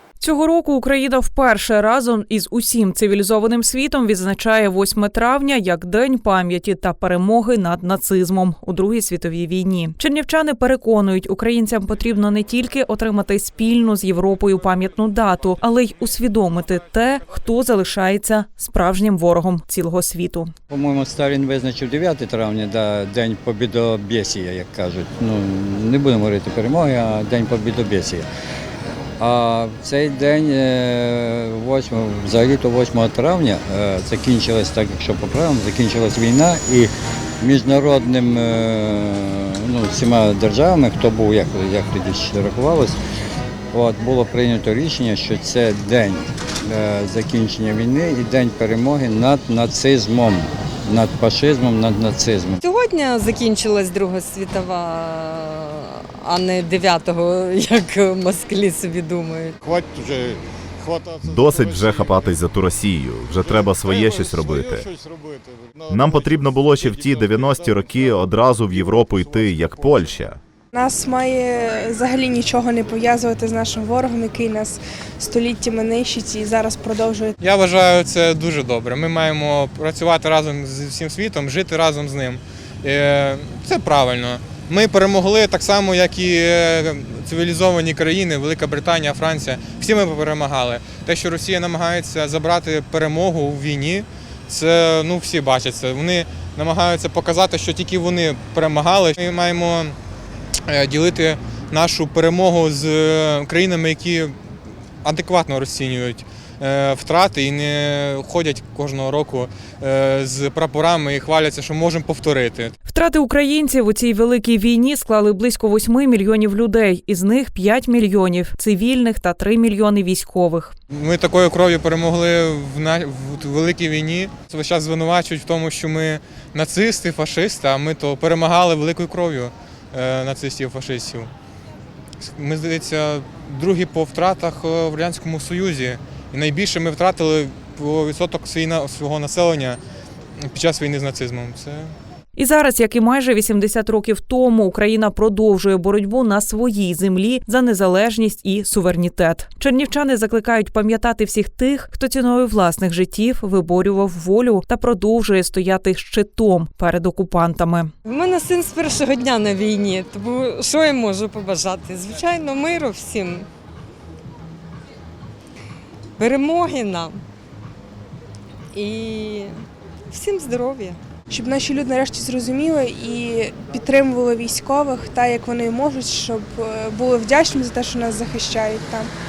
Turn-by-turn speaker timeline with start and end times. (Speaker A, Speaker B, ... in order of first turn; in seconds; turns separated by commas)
Speaker A: 0.2-20.5, Speaker B: 20.7-28.3, Speaker B: 29.2-43.0, Speaker B: 43.7-52.6, Speaker C: 52.6-59.5, Speaker D: 59.6-62.3, Speaker E: 61.2-64.9, Speaker D: 63.5-68.0, Speaker E: 65.9-70.4, Speaker D: 68.7-70.0, Speaker F: 70.7-77.3, Speaker G: 77.4-99.9, Speaker G: 100.7-104.3, Speaker G: 105.0-112.7, Speaker A: 112.8-120.7, Speaker G: 120.9-131.3, Speaker G: 132.2-139.8, Speaker G: 140.5-141.9, Speaker A: 142.3-157.9, Speaker C: 158.0-163.5, Speaker C: 166.2-167.2, Speaker C: 168.7-169.5, Speaker C: 170.1-171.0, Speaker F: 171.3-179.1